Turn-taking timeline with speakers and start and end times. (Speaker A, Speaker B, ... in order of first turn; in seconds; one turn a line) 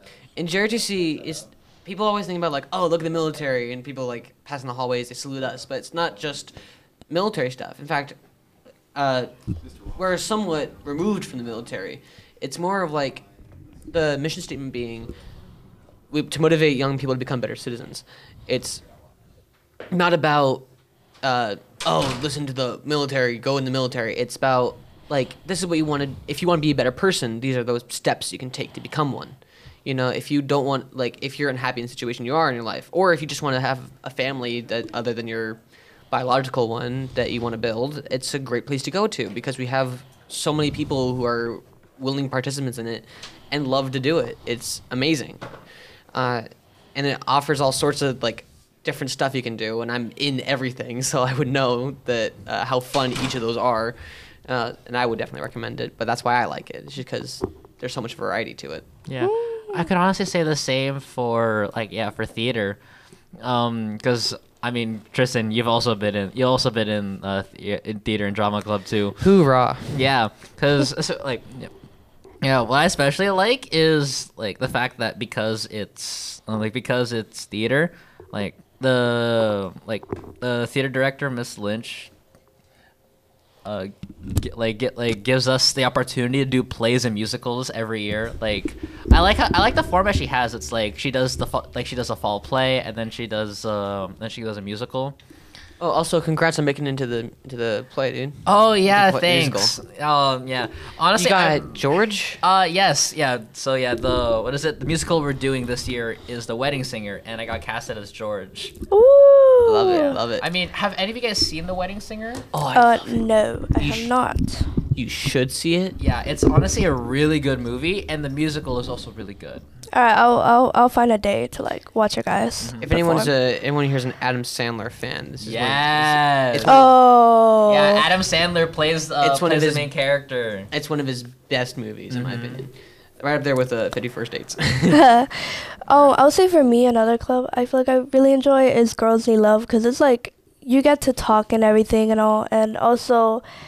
Speaker A: 0.3-6.5
Speaker A: 7.1-8.2
Speaker A: 8.9-9.3
Speaker A: 9.9-13.2
Speaker A: 13.9-15.1
Speaker A: 16.1-18.8
Speaker A: 19.9-20.6
Speaker A: 21.2-35.6
Speaker A: 36.1-45.4
Speaker A: 46.1-58.9
Speaker B: 59.1-62.8
Speaker C: 59.2-59.9
Speaker B: 63.4-69.2
Speaker A: 69.2-69.9
Speaker B: 69.9-71.7
Speaker B: 72.4-82.1
Speaker B: 83.6-95.2
Speaker A: 95.8-99.7
Speaker B: 98.5-101.8
Speaker A: 101.2-102.4
Speaker B: 102.4-108.7
Speaker C: 108.9-110.2
Speaker A: 109.6-110.4
Speaker B: 110.4-112.5
Speaker A: 112.5-113.2
Speaker C: 112.7-114.7
Speaker A: 113.8-114.1
Speaker A: 114.9-116.0
Speaker B: 116.0-119.6
Speaker C: 119.9-123.3
Speaker B: 122.6-122.8
Speaker A: 122.8-126.9
Speaker B: 125.4-126.9
Speaker C: 126.6-128.1
Speaker B: 127.7-130.7
Speaker A: 129.2-129.9
Speaker A: 130.7-135.1
Speaker B: 132.1-132.6
Speaker C: 134.9-143.4